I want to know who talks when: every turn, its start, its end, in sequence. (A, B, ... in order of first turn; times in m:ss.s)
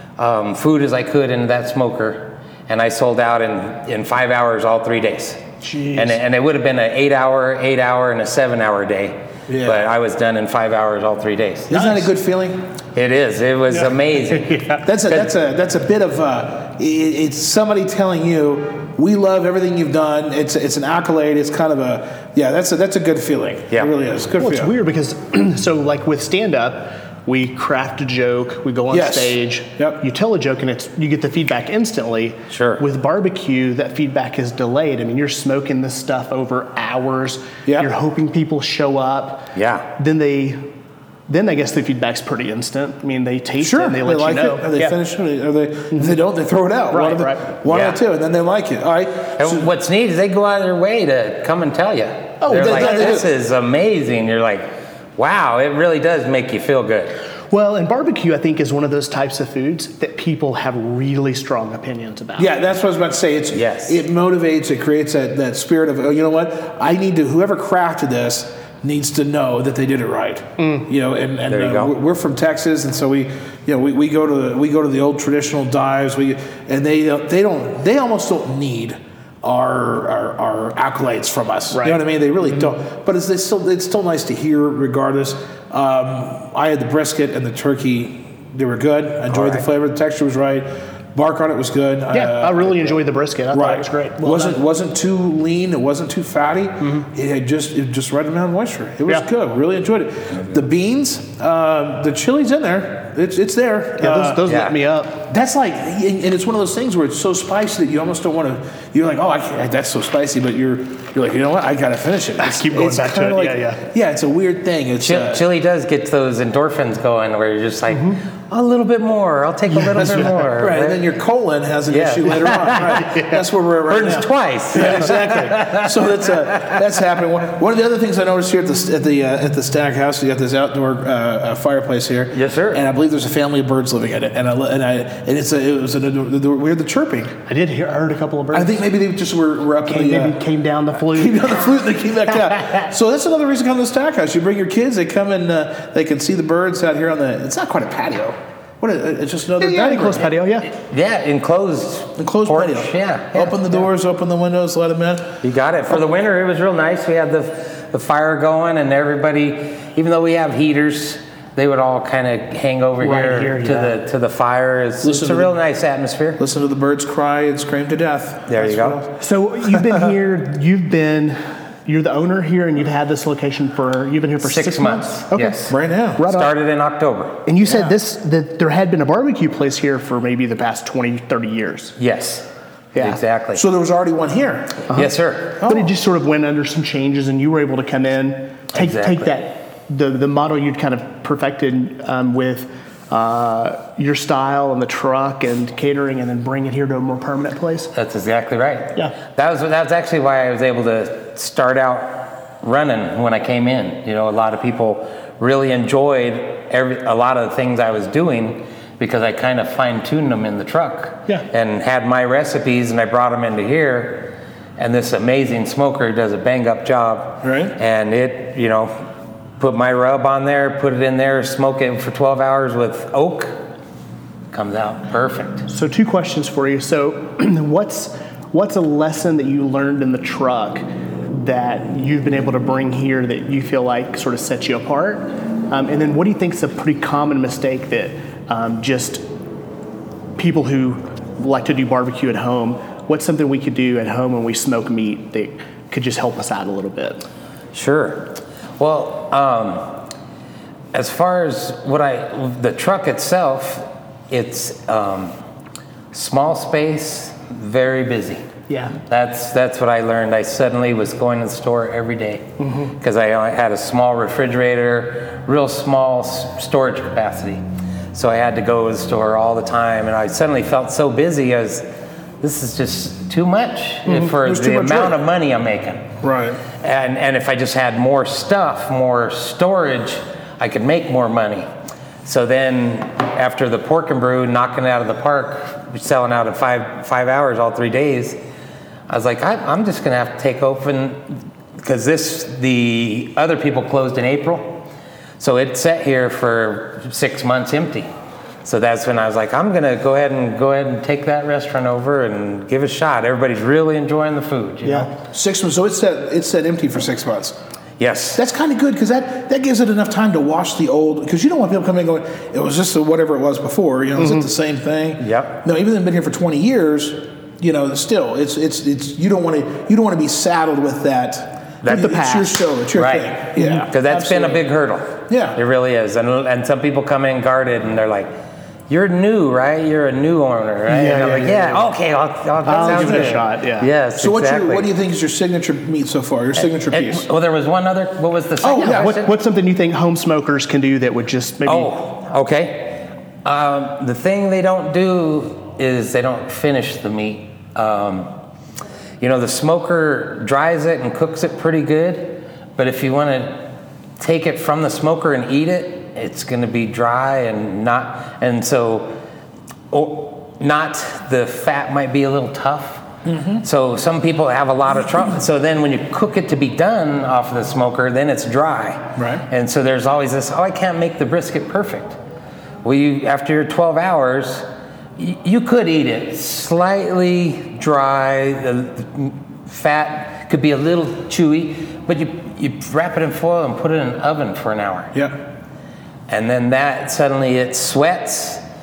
0:00.2-0:05.4 A
0:05.6-0:06.2 B
0:05.9-0:12.0 A
0:09.5-0:09.9 C
0:11.7-0:12.7 C
0:12.9-0:15.3 A
0:14.3-0:14.8 B
0:14.8-0:24.7 C
0:24.4-0:40.7 B
0:28.9-0:30.0 C
0:32.5-0:32.8 A
0:37.6-0:37.9 C
0:39.5-0:39.9 A
0:41.3-0:45.0 B
0:43.6-0:49.7 C
0:46.9-0:47.5 B
0:47.7-0:48.0 A
0:49.4-0:57.1 A
0:52.4-0:53.2 B
0:52.5-0:53.3 C
0:57.5-1:02.5 B
1:02.4-1:44.4 C
1:03.5-1:04.0 A
1:10.6-1:10.9 B
1:11.5-1:11.9 A
1:21.7-1:22.0 B
1:32.1-1:34.6 B
1:36.8-1:37.1 B
1:44.0-1:45.3 B
1:44.4-1:44.8 A
1:45.3-1:55.4 C
1:52.4-1:53.8 B
1:55.0-2:01.0 A
1:57.9-1:58.2 B
1:59.7-2:00.7 B
2:00.0-2:17.3 C
2:01.9-2:03.0 A
2:02.8-2:03.4 B
2:03.9-2:06.7 A
2:12.3-2:12.8 A
2:17.4-2:18.9 B
2:18.5-2:30.4 C
2:19.8-2:21.8 B
2:22.5-2:22.8 B
2:29.6-2:30.7 B
2:30.6-2:33.8 A
2:32.2-2:35.4 C
2:35.4-2:46.4 A
2:43.0-2:44.0 B
2:45.0-2:45.5 C
2:46.4-2:49.1 C
2:48.5-2:49.0 A
2:49.2-2:56.5 B
2:54.4-2:57.4 A
2:55.7-2:56.2 C
2:57.4-3:02.0 B
2:57.6-2:57.9 C
3:02.0-3:03.6 A
3:02.9-3:03.2 B
3:03.5-3:04.9 C
3:04.9-3:17.9 B
3:04.9-3:05.6 A
3:05.6-3:05.9 C
3:08.7-3:09.4 A
3:17.9-3:38.9 A
3:37.4-3:37.7 C
3:39.6-3:43.6 A
3:44.5-3:45.6 A
3:45.7-3:59.2 B
4:00.4-4:07.2 B
4:07.7-4:10.1 A
4:10.9-4:15.3 A
4:16.1-4:18.4 A
4:18.7-4:19.0 B
4:19.0-4:31.8 A
4:22.6-4:22.9 B
4:32.4-4:36.1 A
4:34.0-4:35.2 C
4:36.2-4:36.6 C
4:36.8-4:41.7 A
4:42.2-4:48.4 A
4:49.1-4:54.8 A
4:55.4-4:58.1 A
4:58.6-5:05.2 A
5:04.8-5:05.1 B
5:05.2-5:07.6 C
5:08.0-5:08.4 A
5:08.3-5:24.6 C
5:14.2-5:14.5 B
5:15.2-5:15.6 A
5:21.8-5:22.2 A
5:21.9-5:22.5 B
5:22.9-5:28.3 A
5:25.3-5:25.6 C
5:28.9-5:34.9 A
5:30.9-5:31.8 B
5:32.6-5:33.9 B
5:32.7-5:33.4 C
5:34.2-5:37.3 C
5:36.6-5:39.3 A
5:38.6-5:39.1 C
5:38.8-5:41.9 B
5:41.6-5:48.3 A
5:49.2-5:59.2 A
5:59.9-6:03.0 A
6:03.2-6:03.6 C
6:03.6-6:12.2 A
6:09.2-6:09.4 C
6:12.8-6:25.1 A
6:25.1-6:25.4 C
6:26.3-6:28.6 A